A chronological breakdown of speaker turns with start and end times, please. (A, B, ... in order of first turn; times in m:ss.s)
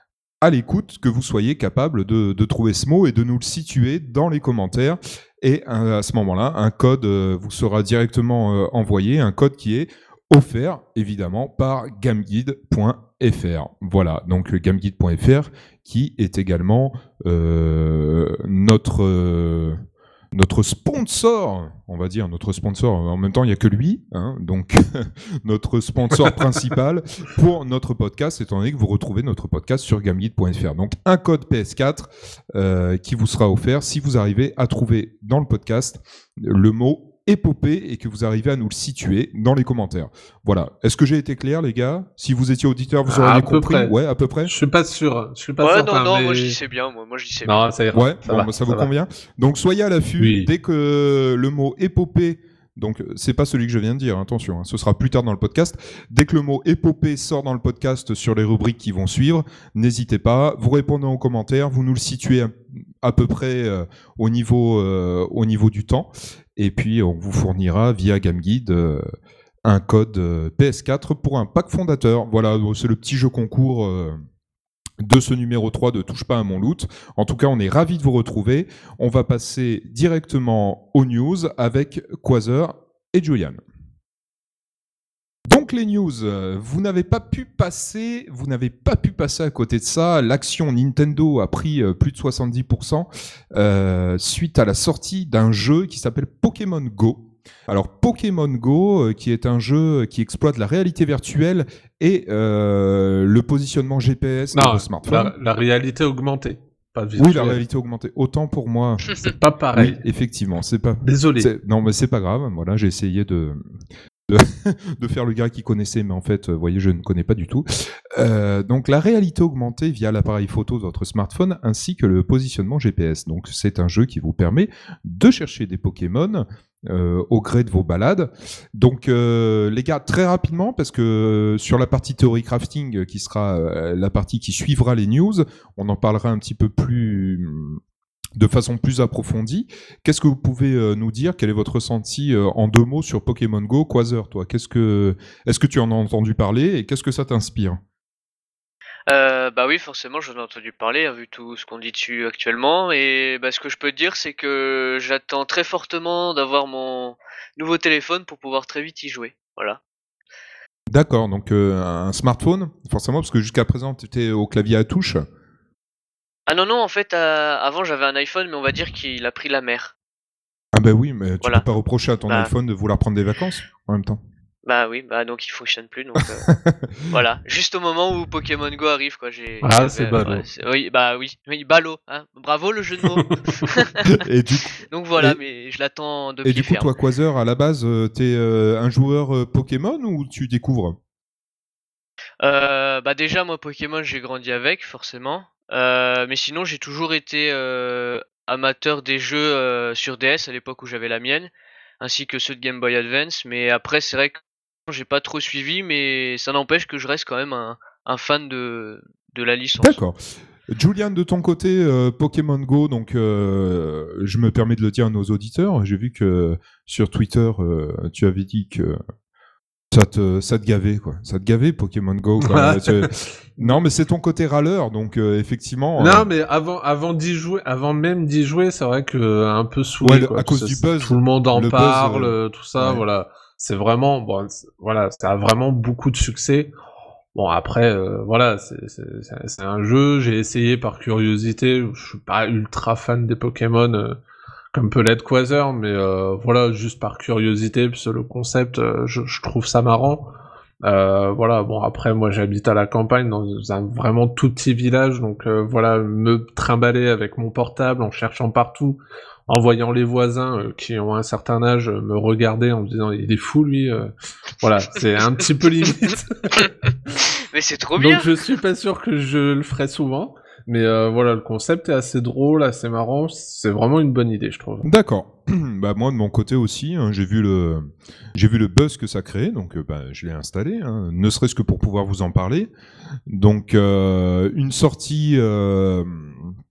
0:00.4-0:19.8 A
0:20.3-0:44.5 A
0:43.1-0:43.9 B
0:44.4-0:46.6 B
0:45.6-0:47.7 C
0:47.4-0:48.9 B
0:47.9-1:09.0 A
0:50.2-0:50.5 B
1:09.6-1:14.2 A
1:15.0-1:23.6 A
1:25.5-1:45.3 A
1:44.5-1:47.6 B
1:47.2-1:53.6 A
1:49.2-1:50.0 B
1:51.0-1:51.5 B
1:54.3-2:17.8 A
2:18.4-2:27.8 A
2:29.1-2:39.8 C
2:40.9-2:45.2 A
2:46.5-2:49.9 C
2:50.7-2:54.2 A
2:54.6-2:56.5 C
2:56.5-2:57.0 A
2:57.1-3:04.0 C
2:59.6-3:00.4 B
3:03.2-3:03.6 B
3:04.0-3:05.4 A
3:04.9-3:06.9 C
3:06.4-3:11.0 A
3:12.4-3:30.0 C
3:29.8-3:39.0 A
3:39.9-3:46.3 A
3:42.4-3:43.8 B
3:46.0-3:56.7 B
3:50.0-3:53.0 A
3:57.3-4:04.2 B
4:04.7-4:26.7 B
4:27.5-4:28.3 C
4:28.0-4:34.9 B
4:34.8-4:42.7 A
4:43.3-4:46.5 A